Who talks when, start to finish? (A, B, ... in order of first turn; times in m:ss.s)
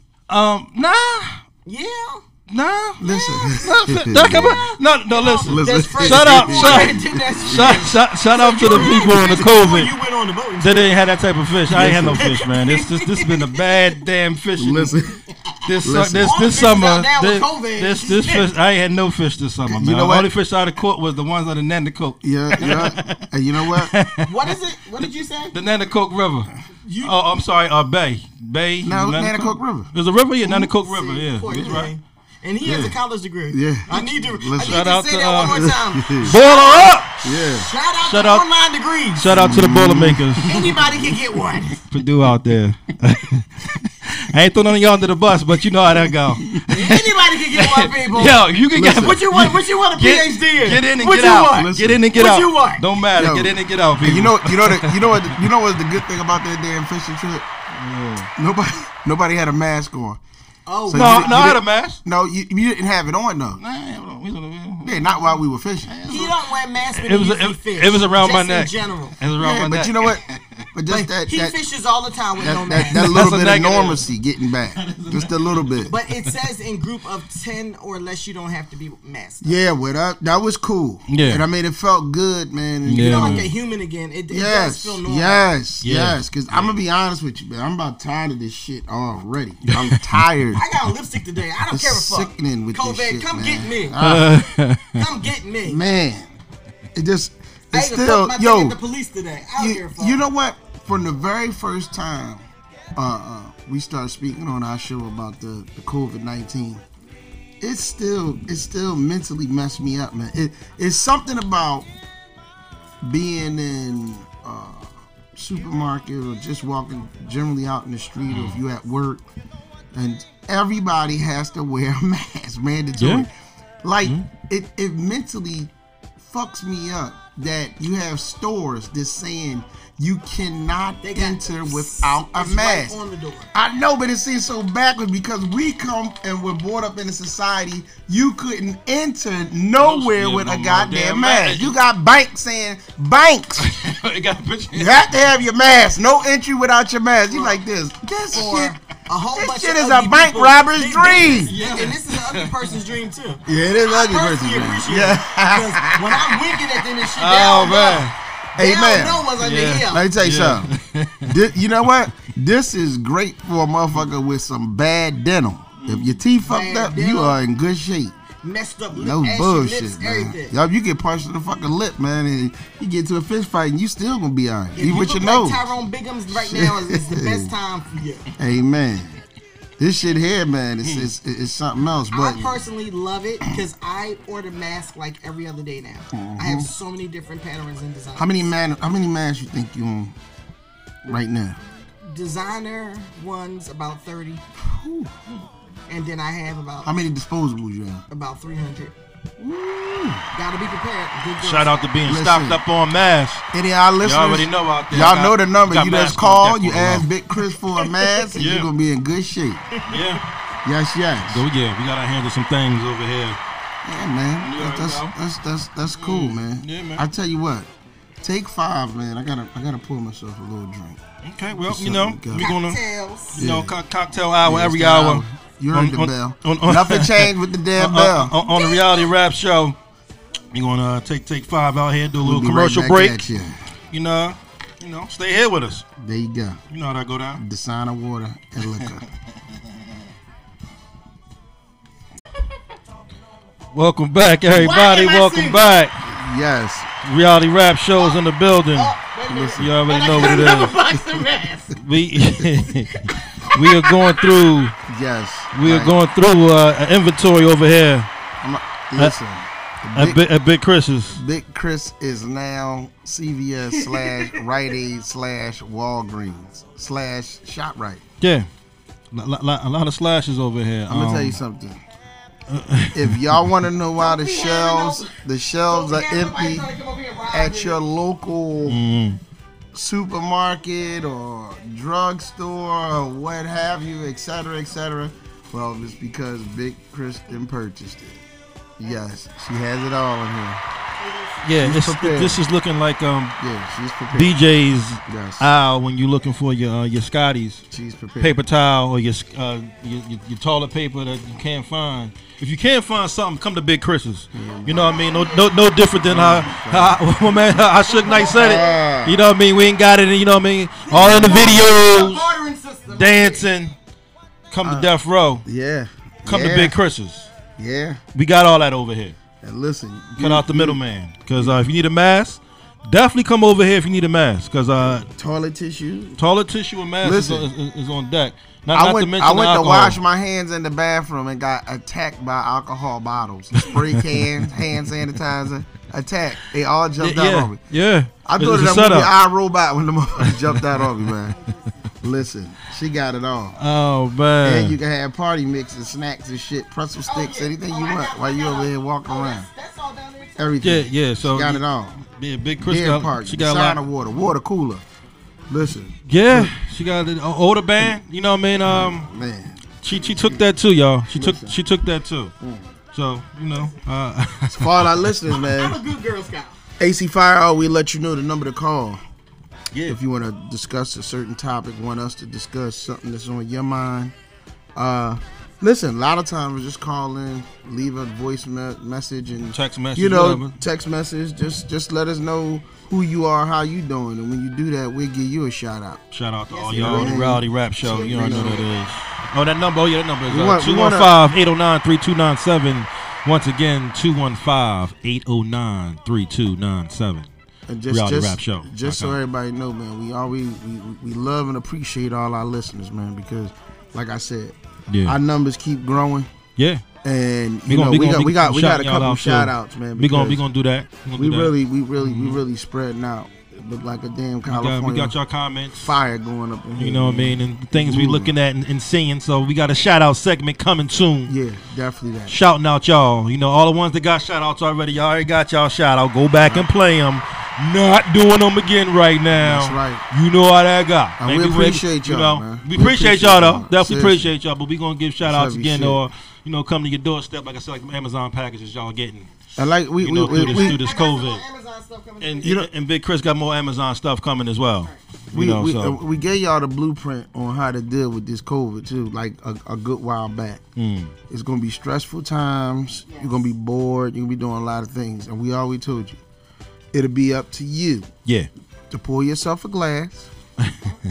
0:00.3-0:01.4 A
0:01.6-0:02.2 B
0:02.5-0:03.0 A
0:03.0-0:04.6 C
0:03.0-0:11.0 B
0:03.6-0:09.9 A
0:05.4-0:07.9 C
0:08.6-0:09.2 C
0:10.6-0:14.9 A
0:11.7-0:12.3 C
0:12.0-0:13.9 B
0:14.6-0:15.2 C
0:15.6-0:31.9 A
0:15.8-0:16.4 C
0:16.2-0:18.5 B
0:19.7-0:20.3 C
0:22.2-0:23.9 C
0:24.2-0:25.6 B
0:26.8-0:27.2 B
0:28.8-0:29.9 C
0:30.4-0:30.7 C
0:30.7-0:39.5 B
0:31.4-0:31.9 C
0:32.6-0:32.9 A
0:33.5-0:34.8 C
0:33.9-0:37.2 A
0:35.4-0:36.4 C
0:37.2-0:37.7 C
0:38.0-0:38.5 A
0:39.2-0:40.7 A
0:39.3-0:41.4 C
0:40.4-0:41.8 B
0:41.9-0:55.5 A
0:46.4-0:46.6 C
0:46.7-0:52.8 B
0:48.7-0:49.2 C
0:51.5-0:52.0 C
0:53.2-0:57.4 C
0:57.7-0:58.3 A
0:58.4-1:00.2 C
1:00.6-1:01.5 B
1:00.9-1:03.6 C
1:00.9-1:02.0 A
1:03.6-1:05.2 A
1:04.8-1:05.9 C
1:05.8-1:10.6 A
1:06.1-1:09.2 B
1:09.4-1:10.2 C
1:10.7-1:11.6 C
1:10.9-1:13.2 B
1:12.4-1:15.9 C
1:12.8-1:14.1 A
1:14.6-1:16.3 A
1:15.8-1:19.6 B
1:19.4-1:23.5 C
1:21.1-1:21.4 A
1:22.8-1:23.5 A
1:22.9-1:25.5 B
1:24.3-1:30.6 C
1:25.8-1:26.8 A
1:29.7-1:30.0 A
1:30.5-1:34.0 B
1:31.7-1:34.4 C
1:34.0-1:35.1 A
1:34.9-1:35.8 B
1:35.6-1:36.4 C
1:36.9-1:38.8 C
1:37.7-1:40.2 B
1:39.6-1:42.4 C
1:43.0-1:46.8 C
1:47.6-1:51.9 C
1:53.0-1:59.2 C
1:58.3-1:58.6 A
1:59.9-2:03.3 C
2:03.0-2:03.2 A
2:03.8-2:13.0 C
2:11.0-2:13.5 B
2:13.5-2:23.7 C
2:19.8-2:21.7 A
2:23.6-2:25.1 A
2:24.7-2:28.8 C
2:27.3-2:27.6 B
2:28.3-2:40.1 B
2:29.3-2:31.5 C
2:31.5-2:32.7 A
2:33.4-2:36.6 C
2:37.2-2:38.1 A
2:38.6-2:39.3 C
2:39.4-2:41.4 A
2:39.9-2:40.7 C
2:41.2-2:48.2 C
2:45.8-2:46.2 A
2:46.4-2:47.4 B
2:48.4-2:50.5 B
2:48.9-2:55.8 C
2:54.8-2:58.3 B
2:56.3-2:57.5 C
2:58.4-2:59.2 C
2:59.8-3:02.6 C
3:00.8-3:01.1 A
3:02.1-3:08.5 B
3:06.1-3:06.7 C
3:08.2-3:10.1 C
3:11.0-3:11.6 C
3:12.0-3:14.4 B
3:14.6-3:15.1 C
3:15.9-3:17.0 B
3:16.8-3:18.0 C
3:18.1-3:19.0 B
3:19.4-3:20.3 C
3:20.3-3:21.8 B
3:21.4-3:23.4 A
3:22.0-3:22.6 C
3:23.5-3:29.7 C
3:24.0-3:27.1 A
3:27.8-3:28.3 B
3:28.4-3:28.7 A
3:29.9-3:30.2 A
3:30.6-3:31.4 C
3:31.3-3:33.4 A
3:33.8-3:37.7 C
3:34.4-3:35.1 A
3:36.0-3:37.0 A
3:38.2-3:41.0 C
3:41.2-3:49.8 A
3:41.6-3:42.5 C
3:42.4-3:43.4 B
3:43.3-3:43.8 C
3:44.4-3:48.3 C
3:48.4-3:49.1 B
3:50.5-3:53.2 A
3:52.2-3:53.6 C
3:53.9-3:55.8 A
3:56.0-3:56.6 C
3:56.7-3:57.4 A
3:57.4-3:59.0 C
3:58.7-3:59.0 A
4:03.7-4:06.0 A
4:04.5-4:05.7 B
4:06.0-4:06.9 C
4:07.0-4:08.9 A
4:08.0-4:11.8 B
4:09.3-4:10.5 C
4:09.6-4:10.8 A
4:11.8-4:14.7 A
4:12.9-4:14.4 B
4:14.8-4:16.0 C
4:15.5-4:18.1 A
4:18.4-4:20.2 C
4:20.0-4:21.2 A
4:21.1-4:28.0 C
4:28.2-4:28.5 A
4:29.1-4:31.4 A
4:30.9-4:31.8 C
4:32.5-4:33.2 A
4:32.9-4:36.7 C
4:34.0-4:37.8 B
4:37.3-4:38.8 C
4:38.6-4:39.2 A
4:39.7-4:48.2 C
4:48.8-4:50.6 C
4:51.0-4:51.6 B
4:51.4-4:53.3 A
4:51.6-4:52.4 C
4:53.4-4:54.4 C
4:54.1-4:57.6 A
4:55.1-4:55.5 C
4:57.7-4:58.4 C
4:58.2-5:12.4 A
5:04.3-5:05.0 C
5:04.7-5:05.6 B
5:06.0-5:07.0 C
5:07.6-5:08.8 B
5:08.3-5:09.3 C
5:10.8-5:13.5 B
5:12.9-5:13.7 A
5:14.5-5:15.4 A
5:14.6-5:14.9 C
5:15.4-5:16.8 C
5:16.2-5:17.3 A
5:17.6-5:18.0 C
5:18.1-5:19.2 A
5:19.4-5:20.8 C
5:20.2-5:25.1 A
5:21.4-5:21.6 C
5:24.8-5:26.2 C
5:26.2-5:30.0 A
5:27.0-5:27.5 C
5:28.7-5:37.6 C
5:33.6-5:34.1 A
5:37.0-5:39.1 A
5:38.2-5:41.4 C
5:40.2-5:41.5 A
5:42.0-5:43.6 C
5:43.6-5:44.8 A
5:44.4-5:49.5 C
5:47.1-5:50.6 B
5:50.4-5:52.0 C
5:50.6-5:53.8 A
5:52.6-5:54.8 C
5:55.5-5:56.5 C
5:56.1-5:59.1 A
5:58.6-6:00.4 C
5:59.8-6:02.3 A
6:01.1-6:01.6 C
6:02.4-6:02.7 C
6:02.9-6:05.0 A
6:04.5-6:05.8 C
6:05.3-6:06.6 B
6:06.8-6:09.0 C
6:09.7-6:10.0 A
6:09.8-6:14.1 C
6:14.8-6:26.0 C
6:19.5-6:20.5 A
6:26.1-6:37.3 A
6:26.5-6:29.0 B
6:26.7-6:28.7 C
6:30.3-6:31.1 C
6:37.7-6:46.3 C
6:37.9-6:39.2 A
6:44.9-6:45.2 A
6:46.6-6:46.8 A
6:47.0-6:50.4 C
6:47.7-6:52.4 A
6:51.2-6:55.2 C
6:54.4-6:55.9 A
6:55.8-6:58.3 C
6:56.8-7:01.3 A
7:01.2-7:02.4 C
7:02.3-7:19.3 A
7:09.3-7:10.0 C
7:11.2-7:14.3 C
7:15.2-7:16.0 C
7:19.6-7:20.8 C
7:20.0-7:21.4 A
7:20.2-7:22.5 B
7:22.2-7:26.0 A
7:22.4-7:22.7 C
7:25.3-7:30.6 C
7:30.8-7:31.1 A
7:31.3-7:36.2 C
7:36.9-7:38.1 C
7:38.9-7:40.3 C
7:40.6-7:41.0 A